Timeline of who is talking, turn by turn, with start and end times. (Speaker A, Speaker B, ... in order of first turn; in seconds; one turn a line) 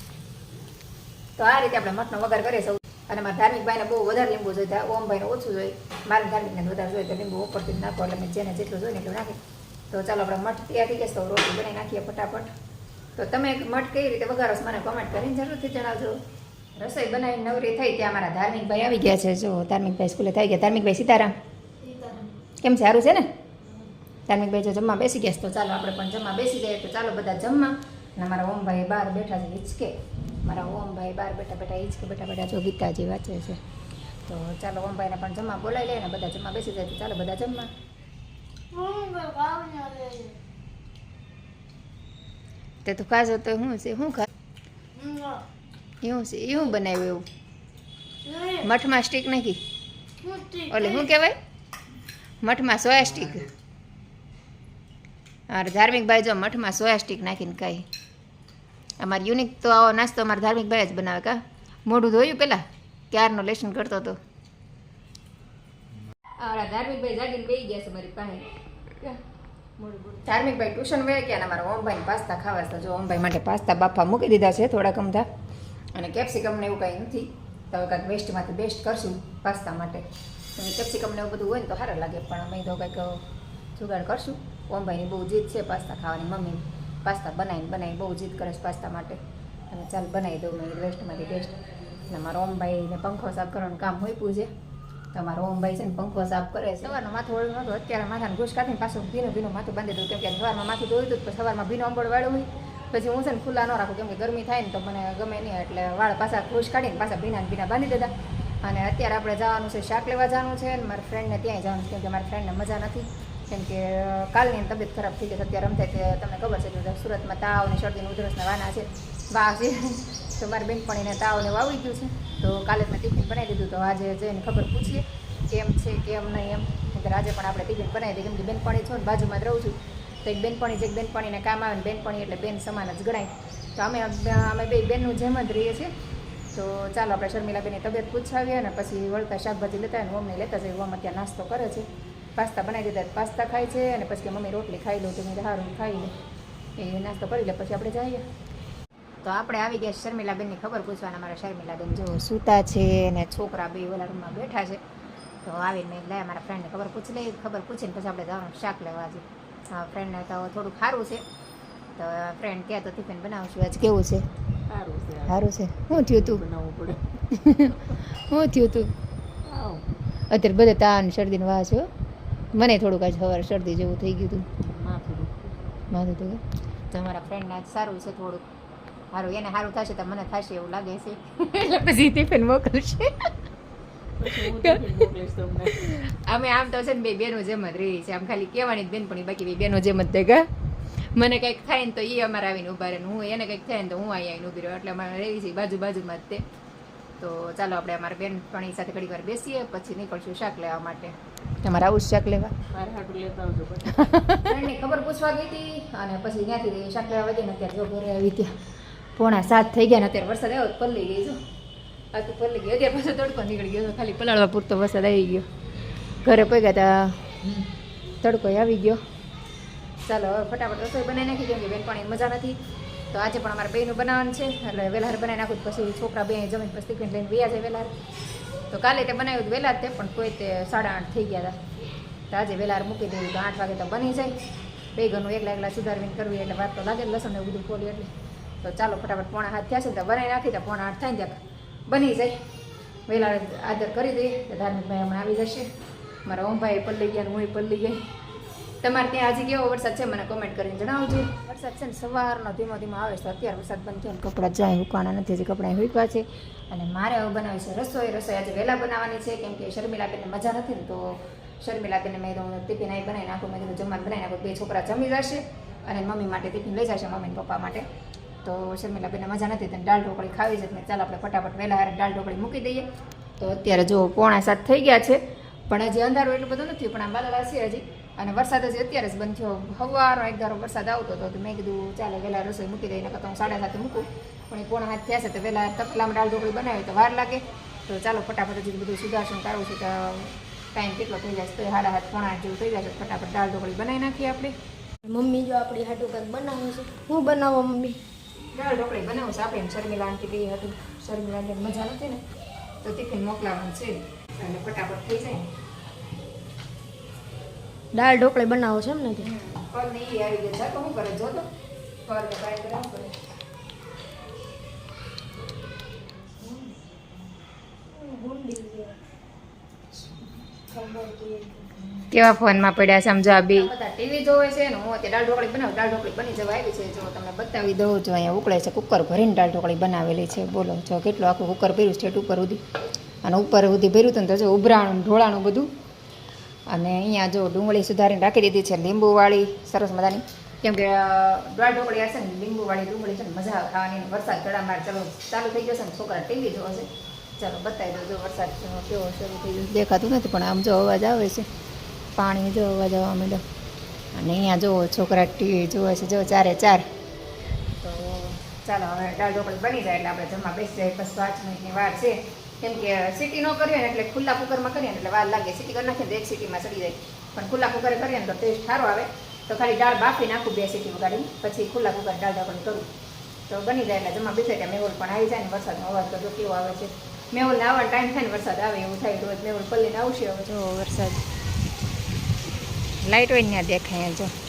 Speaker A: 1.4-9.4
Speaker A: 9.9-12.5
Speaker A: 13.2-16.2
Speaker A: 16.8-21.3
Speaker B: 21.9-22.3
Speaker A: 22.6-23.2
Speaker A: 24.3-29.9
Speaker A: 30.4-33.6
Speaker A: 34.2-37.7
Speaker B: 38.7-40.3
Speaker A: 42.8-44.2
Speaker B: 45.0-45.4
Speaker A: 46.0-47.2
Speaker B: 48.2-48.6
Speaker A: 48.5-49.6
Speaker B: 50.2-51.1
Speaker A: 50.7-51.4
Speaker A: 52.4-53.5
Speaker A: 55.5-57.9
Speaker A: 59.0-64.2
Speaker A: 66.4-69.2
Speaker A: 69.8-75.3
Speaker A: 75.9-80.0
Speaker A: 80.6-83.2
Speaker A: 83.8-89.2
Speaker A: 89.7-94.5
Speaker A: 95.1-135.9
Speaker A: 136.5-146.1
Speaker A: 146.8-148.2
Speaker A: 149.2-154.8
Speaker A: 155.4-161.2
Speaker A: 161.9-164.2
Speaker C: 164.7-165.3
Speaker B: 164.8-165.2
Speaker A: 165.3-166.4
Speaker C: 166.2-166.9
Speaker B: 166.6-167.0
Speaker A: 167.3-168.9
Speaker B: 169.4-169.8
Speaker A: 170.3-171.9
Speaker A: 172.5-174.4
Speaker C: 174.6-175.5
Speaker A: 175.9-178.4
Speaker A: 179.1-183.1
Speaker B: 184.2-185.7
Speaker C: 184.5-185.6
Speaker A: 184.5-184.8
Speaker A: 185.8-190.4
Speaker A: 191.2-196.4
Speaker A: 197.2-202.5
Speaker B: 202.7-203.9
Speaker C: 202.7-203.8
Speaker A: 204.4-208.6
Speaker A: 209.2-211.4
Speaker A: 212.1-215.4
Speaker A: 216.2-217.6
Speaker A: 218.2-219.0
Speaker A: 220.1-222.6
Speaker A: 223.1-227.9
Speaker A: 228.7-231.5
Speaker A: 232.3-234.3
Speaker A: 234.9-238.1
Speaker A: 238.6-242.4
Speaker A: 243.1-245.7
Speaker A: 246.3-248.1
Speaker A: 248.8-267.9
Speaker A: 268.4-272.9
Speaker A: 273.4-294.6
Speaker B: 295.0-298.0
Speaker A: 298.5-302.2
Speaker A: 302.8-305.4
Speaker B: 307.9-309.3
Speaker A: 309.2-311.5
Speaker A: 312.1-313.1
Speaker B: 317.9-319.0
Speaker B: 320.7-321.8
Speaker A: 322.0-332.6
Speaker A: 333.2-335.7
Speaker A: 336.7-351.4
Speaker A: 352.1-353.4
Speaker A: 354.1-356.8
Speaker A: 357.8-372.9
Speaker A: 373.5-381.2
Speaker A: 383.0-384.3